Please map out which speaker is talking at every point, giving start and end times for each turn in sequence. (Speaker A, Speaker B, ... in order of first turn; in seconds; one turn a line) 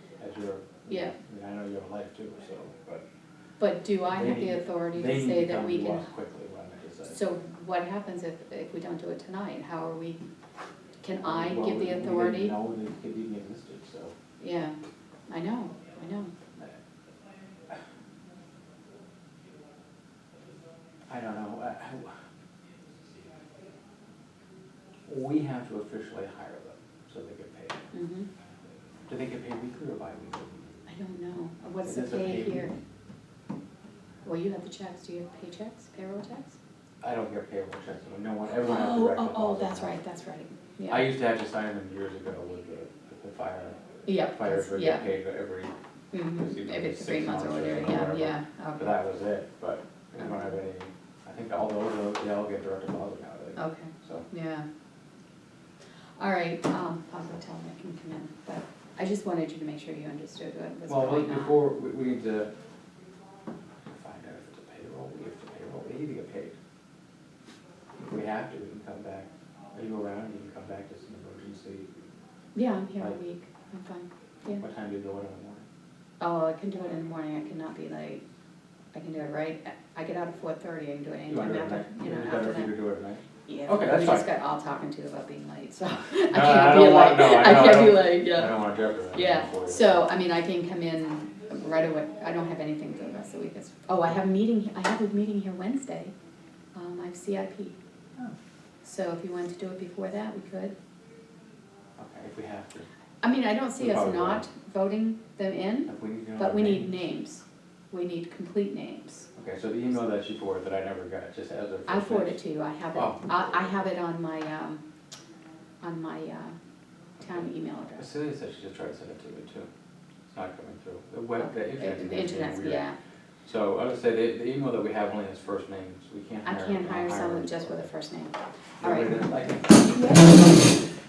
Speaker A: 0.2-3.0
Speaker B: 3.6-6.1
Speaker A: 4.1-7.2
Speaker B: 7.1-10.2
Speaker B: 11.0-12.6
Speaker A: 11.2-14.1
Speaker B: 14.4-16.3
Speaker A: 21.1-22.1
Speaker A: 25.1-27.9
Speaker B: 27.9-28.3
Speaker A: 29.1-30.6
Speaker B: 30.9-32.8
Speaker A: 31.8-32.7
Speaker B: 34.2-36.6
Speaker A: 37.0-40.0
Speaker B: 38.5-41.1
Speaker A: 40.9-54.3
Speaker B: 44.1-45.1
Speaker B: 46.1-49.0
Speaker B: 50.2-50.5
Speaker B: 53.6-54.7
Speaker B: 56.2-61.6
Speaker A: 60.9-62.5
Speaker A: 63.9-66.6
Speaker A: 68.0-71.9
Speaker B: 72.5-74.6
Speaker A: 74.5-75.7
Speaker B: 76.2-78.2
Speaker B: 78.9-82.8
Speaker A: 81.3-84.3
Speaker B: 83.5-96.1
Speaker A: 86.3-90.1
Speaker B: 96.7-97.8
Speaker B: 98.8-100.8
Speaker A: 102.0-102.9
Speaker B: 103.2-109.3
Speaker A: 103.8-104.5
Speaker A: 105.9-107.0
Speaker A: 109.4-112.4
Speaker B: 111.9-114.8
Speaker A: 112.9-113.8
Speaker B: 115.8-116.6
Speaker B: 117.2-118.1
Speaker A: 117.3-119.7
Speaker A: 120.3-122.9
Speaker B: 121.4-123.0
Speaker A: 123.5-127.9
Speaker B: 126.5-129.3
Speaker A: 128.8-130.8
Speaker B: 129.8-130.5